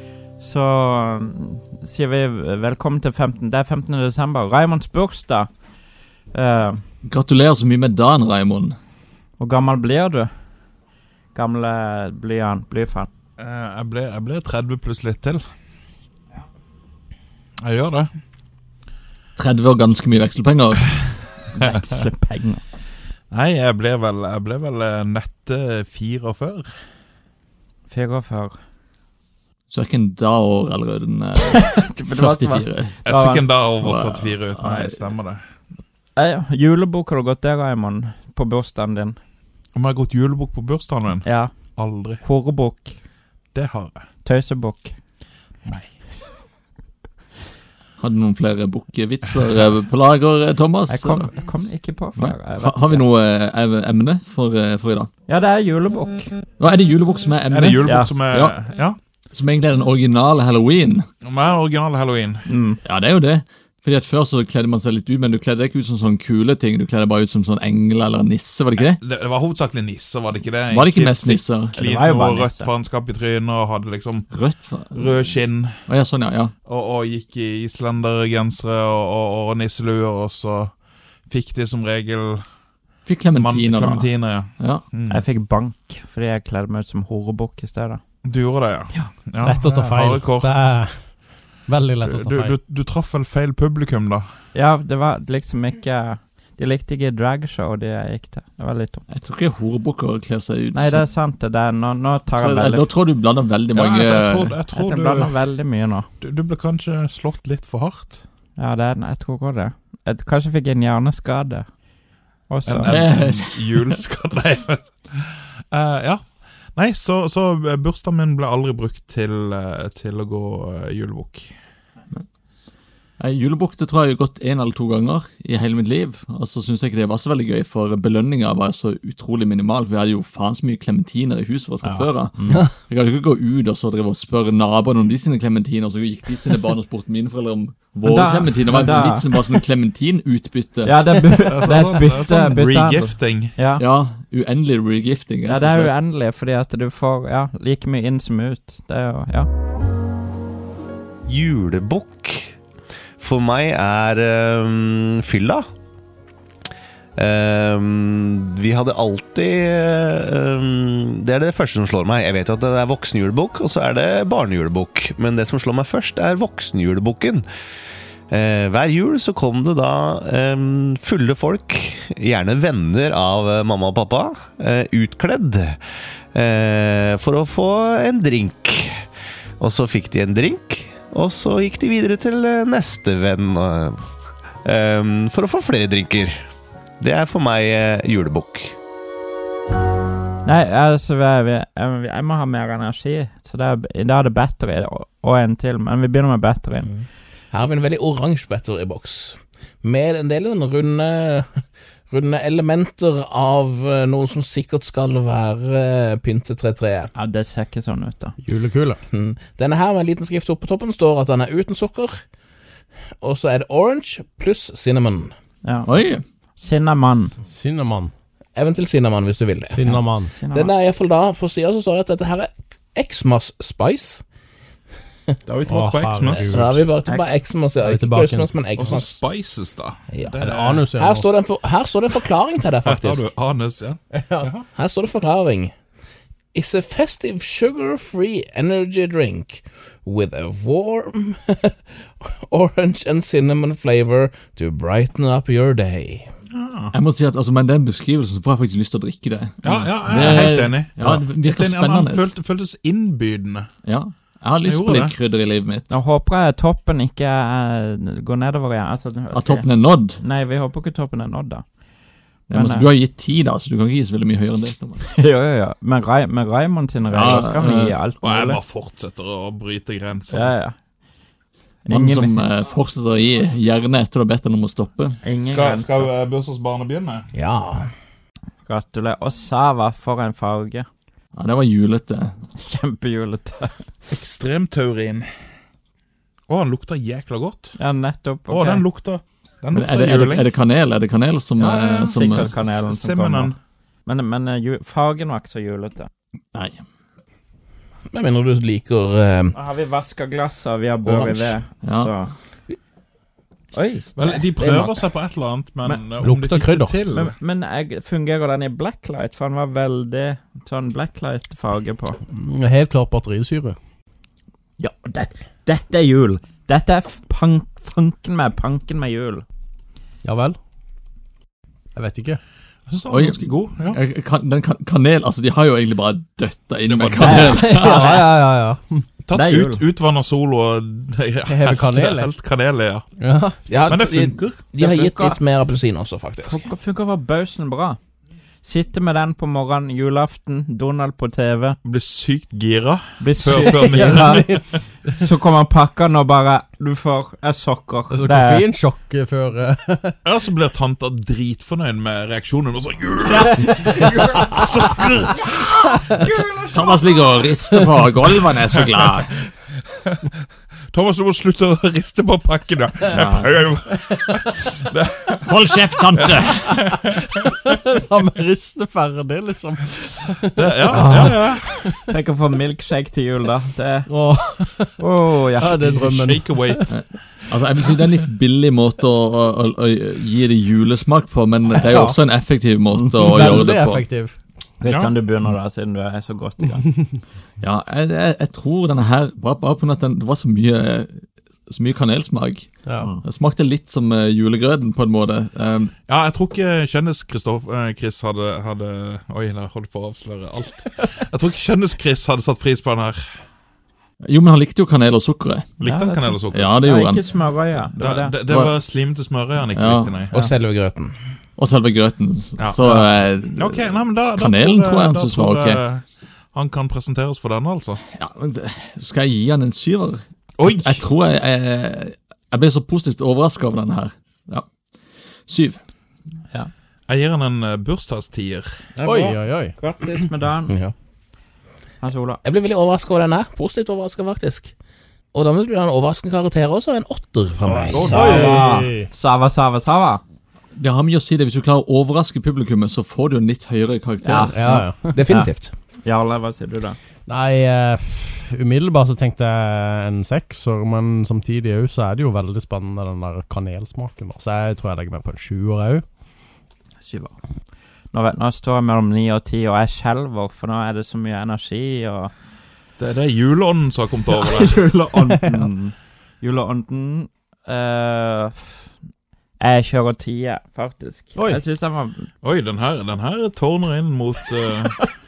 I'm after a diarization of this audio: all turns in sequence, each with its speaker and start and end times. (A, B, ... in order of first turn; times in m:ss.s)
0:00.4-0:05.5 A
0:06.3-0:06.8 A
0:07.0-0:08.8 B
0:09.4-0:10.3 A
0:11.3-0:13.1 A
0:13.4-0:15.4 C
0:17.6-0:18.1 C
0:19.4-0:21.0 B
0:21.5-0:22.6 A
0:23.3-0:26.7 C
0:27.9-0:28.6 A
0:29.7-0:33.0 B
0:31.5-0:33.5 A
0:33.0-0:35.4 C
0:33.8-0:35.0 B
0:36.2-0:39.2 A
0:39.7-0:42.2 C
0:41.2-0:41.5 A
0:42.2-0:43.0 A
0:43.5-0:44.0 C
0:44.2-0:44.9 A
0:48.0-0:51.3 B
0:50.9-0:53.0 A
0:52.2-0:55.1 B
0:55.3-0:56.3 A
0:56.6-0:58.5 B
0:57.5-0:59.0 C
0:57.8-0:58.1 A
0:59.3-1:01.1 B
1:01.2-1:02.4 C
1:02.4-1:02.8 A
1:02.8-1:09.0 B
1:08.8-1:14.3 C
1:10.7-1:11.7 B
1:11.7-1:12.7 A
1:14.3-1:15.2 B
1:14.9-1:15.7 C
1:15.9-1:16.5 B
1:16.6-1:20.7 C
1:21.3-1:22.4 C
1:23.0-1:24.8 B
1:23.3-1:25.2 C
1:25.1-1:28.0 A
1:28.2-1:30.5 C
1:29.4-1:32.6 D
1:32.0-1:34.2 C
1:34.5-1:39.0 A
1:39.1-1:41.1 B
1:40.7-1:42.9 A
1:42.4-1:44.5 B
1:43.7-1:45.3 C
1:44.7-1:46.1 A
1:46.2-1:48.2 C
1:48.6-1:51.6 A
1:52.5-1:52.9 A
1:52.6-2:01.5 C
1:52.9-1:53.9 B
2:03.2-2:21.0 B
2:11.8-2:12.6 A
2:18.0-2:19.6 A
2:20.8-2:23.8 A
2:21.5-2:23.5 C
2:23.8-2:25.9 B
2:25.5-2:29.5 A
2:31.2-2:32.6 E
2:33.2-2:35.6 E
2:37.2-2:47.4 E
2:48.3-2:55.8 E
2:56.3-2:59.0 E
2:59.6-3:04.0 E
3:04.6-3:06.4 E
3:07.0-3:08.7 E
3:10.4-3:16.9 A
3:17.5-3:21.5 F
3:22.1-3:27.1 F
3:27.1-3:28.4 A
3:28.4-3:29.0 D
3:29.1-3:32.2 F
3:33.2-3:35.3 F
3:35.6-3:35.9 A
3:35.8-3:36.2 B
3:36.6-3:37.4 A
3:37.4-3:38.1 D
3:38.6-3:39.8 F
3:39.7-3:40.3 D
3:39.8-3:40.7 A
3:40.4-3:44.2 F
3:45.4-3:46.8 C
3:45.6-3:46.8 D
3:46.3-3:49.2 F
3:47.8-3:48.5 D
3:48.8-3:50.9 C
3:50.1-3:50.4 F
3:50.4-3:51.3 D
3:50.9-3:53.3 F
3:52.8-3:54.6 C
3:54.1-3:54.5 D
3:54.7-3:55.7 F
3:56.5-4:06.3 F
4:06.5-4:06.9 C
4:06.9-4:12.3 B
4:09.6-4:13.7 C
4:13.8-4:15.9 B
4:14.6-4:15.1 C
4:15.9-4:21.6 A
4:19.3-4:20.2 B
4:22.5-4:25.1 B
4:22.5-4:22.9 A
4:25.0-4:28.6 A
4:27.1-4:28.0 B
4:28.2-4:30.5 C
4:30.3-4:30.8 A
4:31.8-4:32.4 A
4:31.9-4:35.2 B
4:35.2-4:36.1 A
4:35.5-4:37.3 C
4:37.3-4:37.9 F
4:38.6-4:40.8 A
4:41.3-4:42.4 B
4:42.6-4:43.7 A
4:44.1-4:45.3 C
4:46.5-4:47.8 C
4:47.8-4:48.8 A
4:48.5-4:50.5 C
4:49.7-4:52.5 B
4:51.6-4:53.5 C
4:52.0-4:56.1 A
4:56.5-4:56.8 B
4:58.1-4:59.6 F
4:59.5-5:02.3 A
5:01.1-5:01.5 F
5:01.8-5:02.1 B
5:03.7-5:04.4 A
5:04.2-5:07.4 C
5:04.6-5:05.0 F
5:06.2-5:07.0 D
5:07.1-5:12.2 A
5:12.3-5:13.8 D
5:14.8-5:19.4 A
5:20.2-5:20.6 D
5:21.9-5:22.4 D
5:22.9-5:24.0 C
5:23.1-5:28.1 B
5:26.8-5:27.5 C
5:27.2-5:28.3 A
5:27.5-5:29.0 D
5:29.2-5:33.0 C
5:29.3-5:29.8 A
5:31.4-5:32.3 D
5:33.2-5:33.6 D
5:33.7-5:36.7 F
5:33.8-5:34.6 C
5:34.8-5:35.4 A
5:36.4-5:38.0 A
5:38.6-5:41.8 A
5:41.8-5:44.8 C
5:43.2-5:44.5 A
5:43.5-5:44.6 D
5:45.2-5:48.7 A
5:48.1-5:50.1 D
5:50.2-5:55.9 C
5:53.3-5:55.5 A
5:56.1-5:57.5 A
5:56.7-5:59.3 B
5:58.7-5:59.1 C
6:00.0-6:00.3 C
6:00.9-6:05.5 C
6:03.1-6:03.5 B
6:05.4-6:06.6 B
6:06.3-6:07.3 C
6:06.9-6:12.0 D
6:10.5-6:11.8 C
6:12.1-6:14.1 A
6:14.1-6:15.0 D
6:15.0-6:15.8 A
6:15.6-6:16.9 D
6:15.6-6:16.9 C
6:16.9-6:24.1 B
6:21.8-6:22.2 D
6:22.9-6:24.4 D
6:24.8-6:26.9 A
6:24.8-6:25.1 C
6:27.6-6:35.9 B
6:32.9-6:33.1 D
6:36.1-6:43.2 C
6:44.2-6:45.7 B
6:45.8-6:46.8 C
6:45.8-6:48.4 A
6:46.5-6:47.2 B
6:48.0-6:50.3 C
6:48.5-6:48.7 B
6:49.7-6:50.2 B
6:50.3-6:51.1 F
6:51.6-6:55.8 B
6:52.6-6:58.0 C
6:58.1-7:04.7 B
7:00.6-7:01.0 C
7:05.5-7:05.8 B
7:07.1-7:08.7 C
7:09.0-7:10.7 A
7:09.0-7:09.7 D
7:12.0-7:12.4 A
7:12.4-7:14.7 F
7:15.3-7:18.5 F
7:17.6-7:18.8 C
7:18.0-7:20.2 A
7:18.0-7:19.1 D
7:20.7-7:24.6 B
7:24.2-7:25.5 A
7:24.5-7:25.2 D
7:25.1-7:25.7 F
7:26.0-7:27.0 A
7:27.3-7:36.0 D
7:37.0-7:37.4 A
7:38.1-7:42.3 A
7:43.0-7:44.8 C
7:44.3-7:48.9 A
7:45.3-7:45.6 D
7:49.6-7:52.3 A
7:51.4-7:51.6 D
7:52.4-7:55.0 C